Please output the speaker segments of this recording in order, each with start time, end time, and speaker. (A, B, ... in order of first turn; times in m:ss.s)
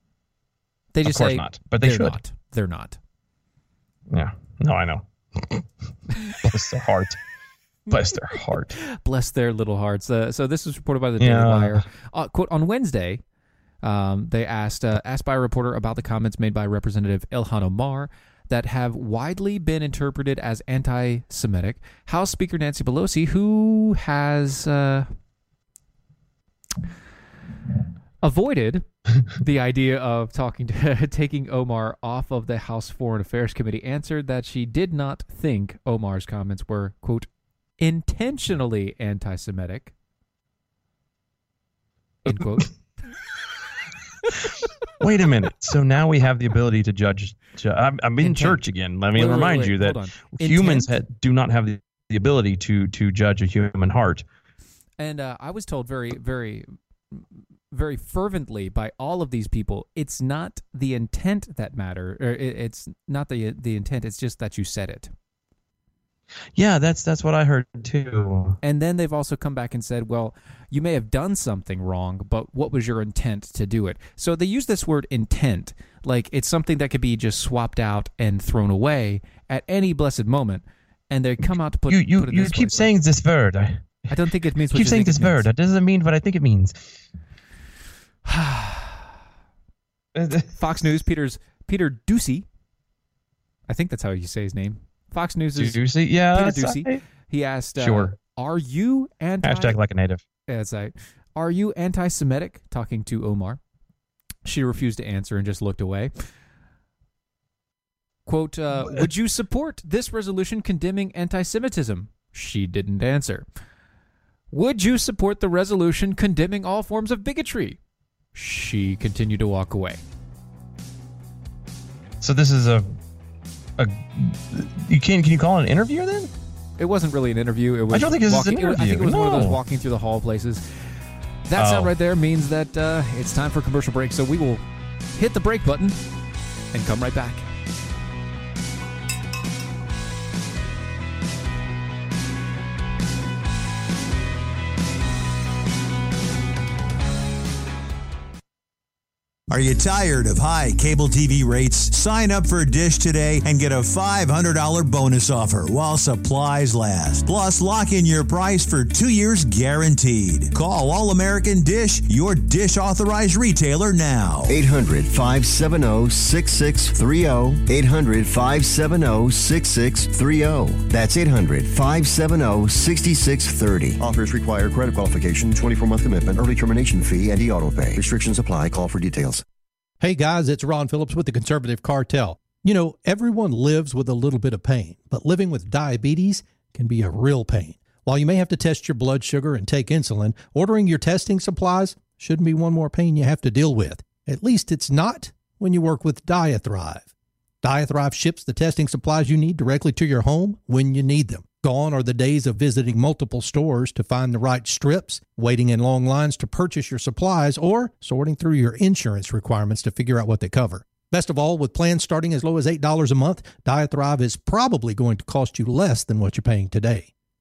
0:00.9-0:03.0 A
0:01.0-0:02.2 B
0:04.1-0:05.7 B
0:06.4-0:07.2 B
0:07.9-0:08.8 B
0:08.8-0:13.2 A
0:11.2-0:11.8 B
0:13.8-0:25.1 A
0:28.2-0:37.3 A
0:37.8-0:39.9 A
0:42.3-0:42.7 A
0:45.0-0:54.2 B
0:48.2-0:50.9 A
0:55.0-1:05.1 A
1:06.6-1:08.6 B
1:08.6-1:22.9 A
1:21.9-1:23.9 B
1:24.1-1:25.5 A
1:24.7-1:26.8 B
1:28.3-1:29.1 A
1:30.1-1:30.5 B
1:30.5-1:32.5 A
1:33.7-1:35.8 A
1:35.6-1:37.0 B
1:36.3-1:39.8 A
1:37.8-1:38.2 B
1:39.4-1:40.2 B
1:40.5-1:43.6 A
1:44.4-1:46.1 A
1:48.3-1:53.5 A
1:54.5-1:57.8 A
1:58.3-2:00.0 A
2:02.2-2:02.9 B
2:03.8-2:06.3 B
2:06.8-2:10.6 A
2:07.9-2:09.6 B
2:11.5-2:14.6 A
2:11.6-2:11.9 B
2:15.2-2:16.0 A
2:16.7-2:17.5 A
2:29.5-2:44.5 C
2:44.5-2:59.4 D
3:00.0-3:17.1 E
3:17.6-3:37.1 E